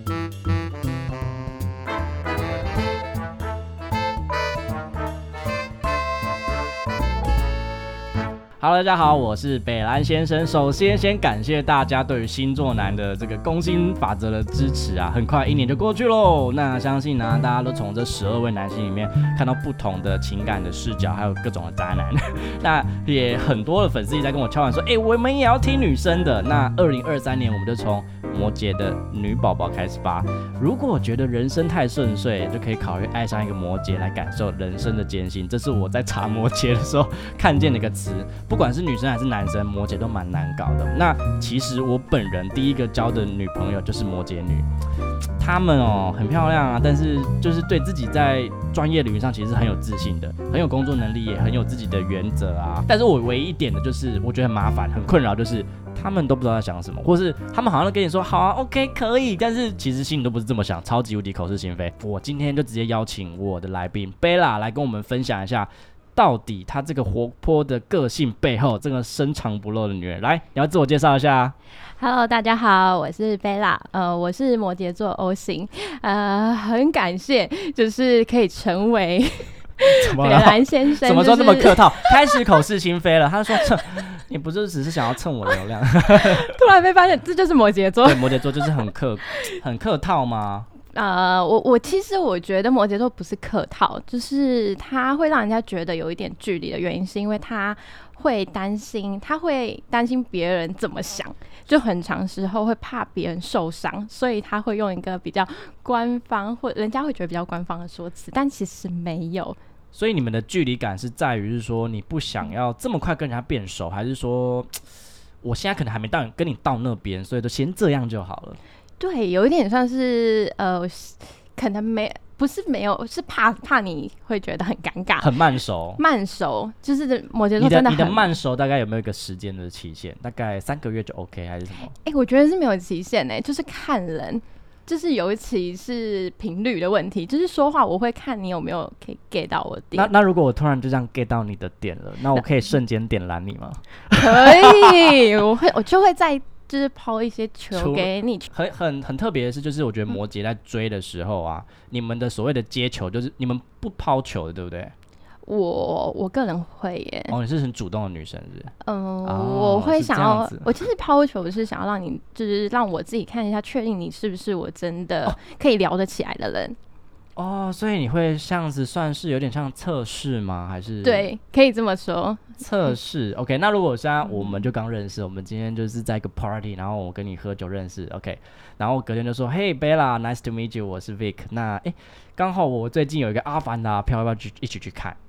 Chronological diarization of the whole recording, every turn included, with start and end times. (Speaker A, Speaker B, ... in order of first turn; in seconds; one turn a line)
Speaker A: 8.6-44.7
Speaker A: 45.4-71.5
Speaker B: 72.0-82.4
Speaker A: 79.8-86.5
Speaker B: 86.1-88.8
Speaker A: 88.0-90.7
Speaker B: 90.9-109.6
Speaker A: 109.9-114.8
Speaker A: 115.4-118.6
Speaker B: 119.0-125.3
Speaker A: 125.2-126.0
Speaker B: 126.0-128.4
Speaker A: 127.6-131.9
Speaker B: 132.0-140.1
Speaker A: 139.9-145.3
Speaker B: 144.1-148.5
Speaker A: 147.7-154.9
Speaker B: 155.4-157.3
Speaker A: 157.3-158.7
Speaker B: 158.8-166.8
Speaker A: 159.2-160.7
Speaker A: 167.3-171.3
Speaker B: 171.0-172.6
Speaker A: 172.6-185.2
Speaker B: 174.2-174.7